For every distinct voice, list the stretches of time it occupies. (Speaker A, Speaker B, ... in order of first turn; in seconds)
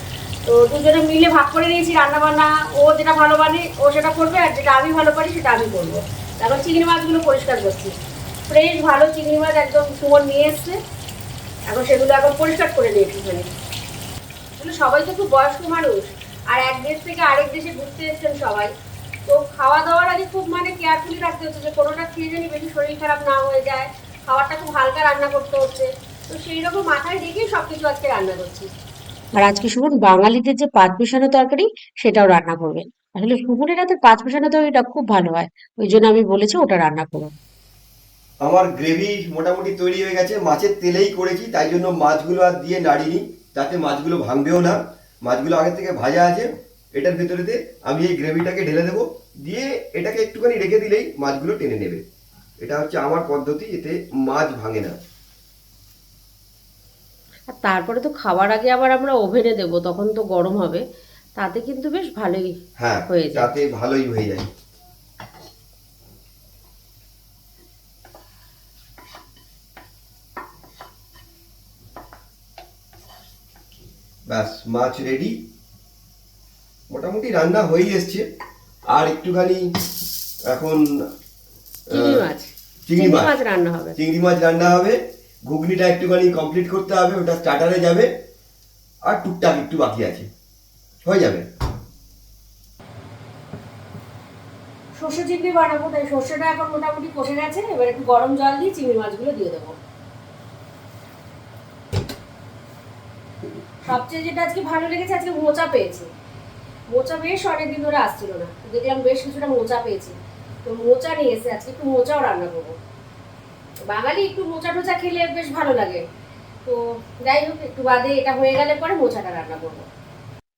Speaker A: 0.5-7.9, 8.5-10.8, 11.7-13.5, 14.6-18.7, 19.3-28.7, 29.3-37.3, 57.5-60.8, 61.4-62.5, 63.1-63.5, 81.9-84.0, 95.0-99.7, 103.8-106.1, 106.9-112.7, 113.9-116.0, 116.7-119.8
Speaker B: 38.4-52.0, 52.6-55.0, 62.8-64.5, 74.3-75.4, 76.9-78.2, 78.9-79.6, 80.5-80.8, 81.9-82.2, 82.9-83.3, 84.0-88.1, 89.0-90.3, 91.0-91.5